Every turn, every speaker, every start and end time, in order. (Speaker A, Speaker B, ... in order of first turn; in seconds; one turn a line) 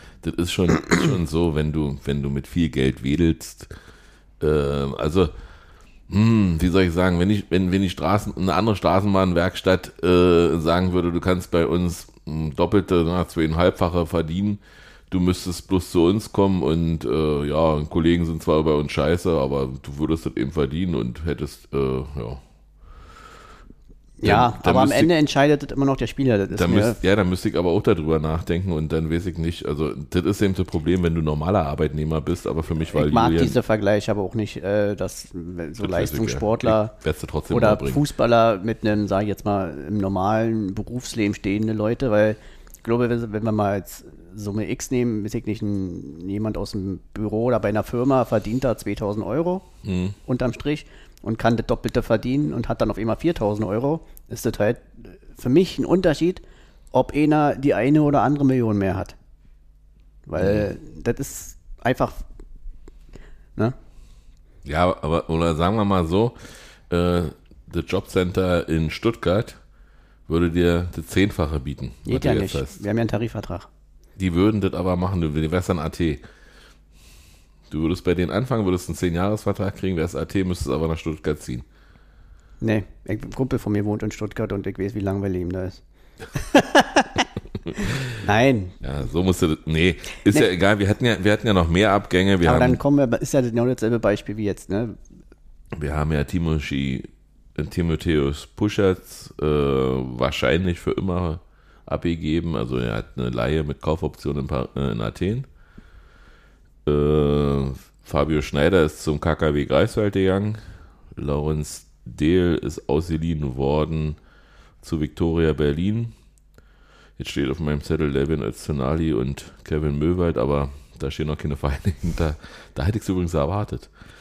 Speaker A: 0.2-3.7
Speaker A: 4.4-5.3
Speaker A: 6.1-22.4
Speaker B: 24.2-27.0
Speaker A: 24.2-25.1
Speaker A: 26.5-33.6
Speaker B: 32.9-37.0
Speaker A: 35.8-38.0
Speaker B: 37.5-49.7
Speaker A: 49.9-50.2
Speaker B: 50.3-59.1
Speaker B: 60.3-62.2
Speaker A: 60.4-60.7
Speaker A: 64.7-69.6
Speaker A: 70.3-72.8
Speaker B: 72.1-73.7
Speaker A: 74.2-76.2
Speaker A: 77.7-81.7
Speaker B: 82.6-85.8
Speaker B: 86.3-88.8
Speaker A: 87.7-88.2
Speaker A: 88.8-92.8
Speaker B: 92.4-95.0
Speaker A: 95.7-105.5
Speaker A: 106.8-114.2
Speaker A: 114.8-116.1
Speaker A: 117.2-123.9